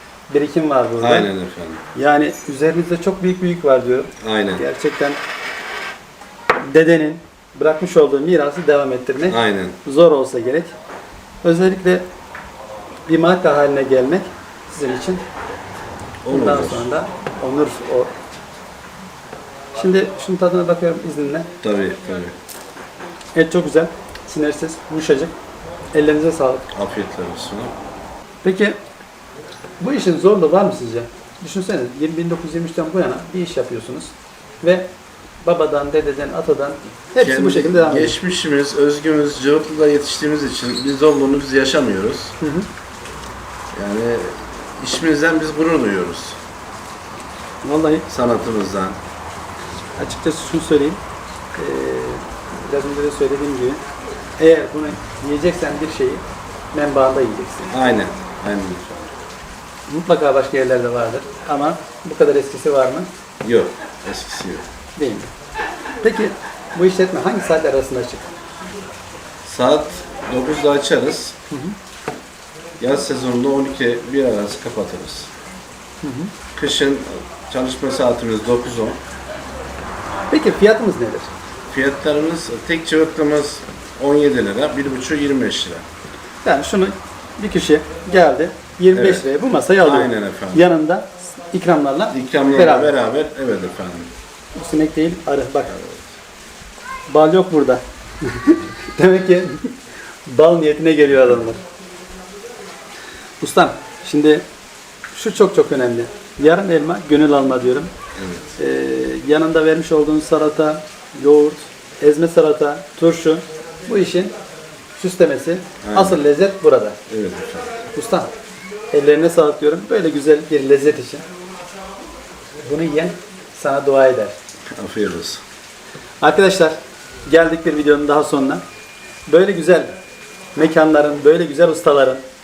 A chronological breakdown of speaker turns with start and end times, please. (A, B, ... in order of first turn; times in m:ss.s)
0:00.3-0:01.3 A
0:01.0-0:01.8 B
0:01.9-0:05.2 A
0:04.2-0:04.6 B
0:06.7-0:10.7 A
0:09.3-0:09.8 B
0:11.4-0:12.0 A
0:13.1-0:15.2 A
0:16.2-0:16.8 B
0:16.3-0:18.1 A
0:19.8-0:21.5 A
0:21.6-0:22.4 B
0:23.4-0:25.3 A
0:25.9-0:26.7 A
0:26.7-0:27.7 B
0:28.4-0:28.8 A
0:29.8-0:34.1 A
0:34.6-0:34.9 A
0:35.4-0:38.2 A
0:37.2-0:42.3 B
0:42.4-0:42.7 A
0:43.8-0:46.4 B
0:47.6-0:48.0 A
0:48.1-0:49.0 B
0:50.0-0:51.0 A
0:51.6-0:53.8 A
0:54.4-0:57.7 A
0:57.7-0:59.1 B
0:59.9-1:03.1 A
1:03.4-1:04.6 B
1:05.0-1:05.3 A
1:06.0-1:08.3 A
1:09.4-1:11.3 B
1:12.8-1:15.3 B
1:16.0-1:16.3 A
1:16.6-1:19.0 B
1:20.3-1:21.3 A
1:21.7-1:25.8 B
1:26.4-1:32.9 A
1:28.9-1:29.2 B
1:29.8-1:30.7 B
1:32.1-1:34.1 B
1:34.6-1:35.7 A
1:35.7-1:36.0 B
1:37.1-1:39.7 A
1:40.3-1:41.6 A
1:43.4-1:44.4 A
1:45.1-1:47.9 A
1:48.2-1:48.5 B
1:48.6-1:54.3 A
1:55.0-1:57.0 A
1:55.8-1:56.2 B
1:57.1-1:57.7 B
1:57.9-1:58.3 A
1:58.9-2:01.2 A
2:02.6-2:04.3 A
2:04.8-2:05.4 B
2:06.2-2:08.6 A
2:09.3-2:09.9 A
2:10.6-2:12.2 A